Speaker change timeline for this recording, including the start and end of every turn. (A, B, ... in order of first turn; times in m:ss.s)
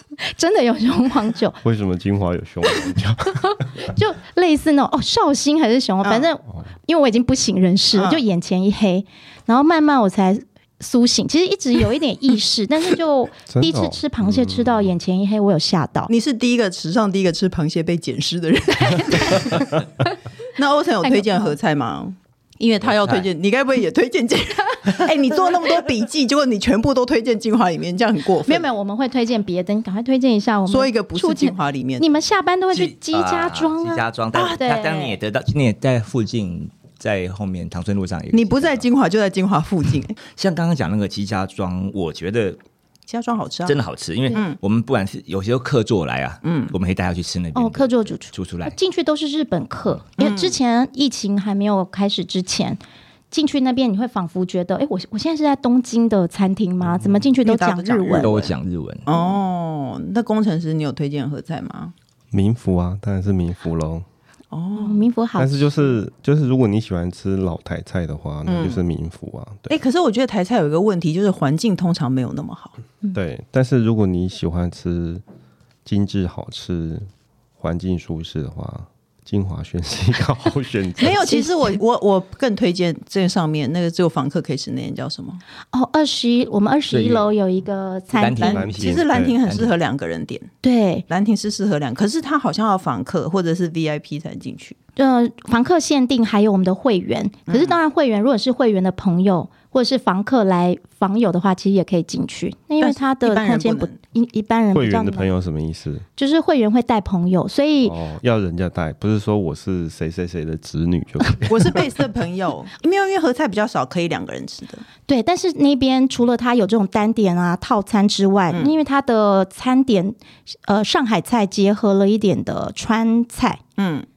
0:00.2-0:01.6 A
0:01.6-0:03.9 B
0:03.8-0:16.1 A
0:07.9-0:08.2 C
0:13.5-0:14.9 B
0:16.1-0:19.8 C
0:18.8-0:20.1 A
0:20.6-0:28.7 C
0:21.0-0:21.5 A
0:28.4-0:35.1 A
0:30.7-0:32.1 C
0:32.7-0:38.8 D
0:34.4-0:35.1 C
0:38.3-0:40.2 C
0:40.4-0:42.6 D
0:43.1-0:43.8 C
0:43.6-0:48.8 D
0:44.3-0:44.6 C
0:46.4-0:46.7 C
0:47.5-0:52.8 A
0:50.2-0:50.6 C
0:53.3-0:58.3 A
0:57.4-0:58.5 C
0:58.1-0:59.1 D
0:59.0-1:01.9 C
1:02.3-1:04.0 B
1:04.5-1:05.0 C
1:04.8-1:05.7 A
1:05.4-1:09.8 B
1:08.5-1:08.8 C
1:09.7-1:12.7 C
1:13.1-1:15.2 B
1:15.8-1:21.4 B
1:21.0-1:25.4 C
1:25.7-1:28.6 A
1:26.9-1:27.3 D
1:28.1-1:29.7 D
1:28.4-1:30.5 C
1:28.4-1:29.4 B
1:30.6-1:31.0 A
1:31.1-1:34.8 C
1:35.0-1:45.3 A
1:37.5-1:37.8 C
1:42.8-1:43.9 C
1:44.7-1:46.0 B
1:46.2-1:47.9 A
1:47.8-1:51.9 B
1:51.5-1:54.8 C
1:55.1-2:03.6 A
2:03.8-2:04.0 C